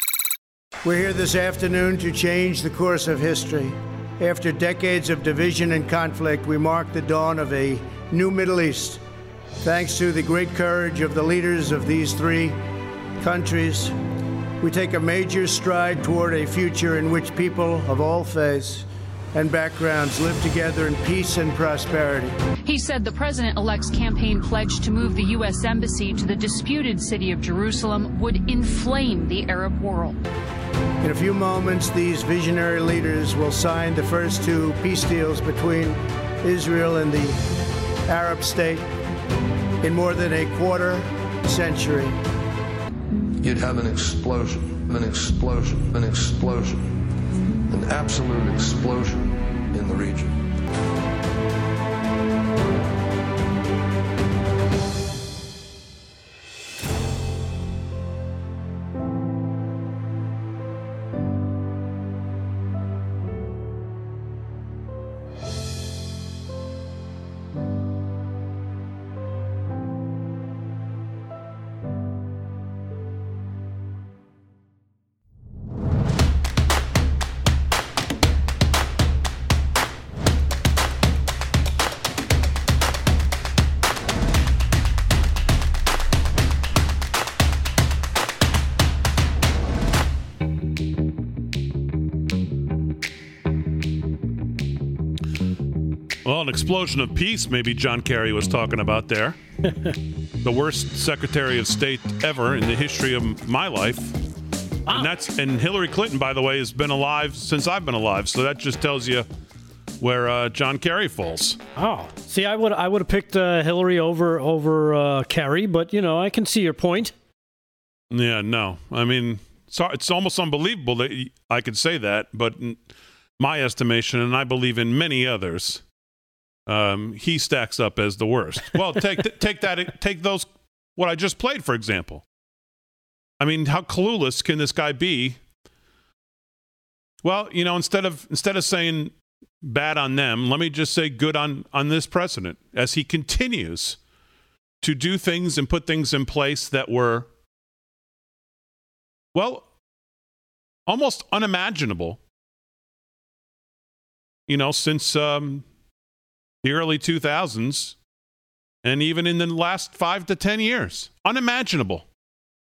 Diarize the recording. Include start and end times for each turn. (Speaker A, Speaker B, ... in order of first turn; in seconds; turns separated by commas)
Speaker A: 0.8-9.0, Speaker A: 9.6-12.6, Speaker A: 13.2-13.9, Speaker A: 14.6-22.4, Speaker B: 22.6-30.2, Speaker A: 31.0-37.4, Speaker A: 38.1-38.8, Speaker A: 39.8-42.2, Speaker C: 43.4-47.0, Speaker C: 47.7-50.4, Speaker D: 96.2-99.4, Speaker D: 100.4-104.2, Speaker D: 104.9-109.3, Speaker D: 110.0-111.6, Speaker E: 111.8-117.1, Speaker D: 118.1-122.8, Speaker D: 123.4-125.8, Speaker D: 126.7-132.2, Speaker D: 133.4-135.4, Speaker D: 137.2-144.0, Speaker D: 144.8-147.3, Speaker D: 149.3-149.7, Speaker D: 150.9-152.2, Speaker D: 154.5-155.7, Speaker D: 156.6-157.9, Speaker D: 158.8-162.1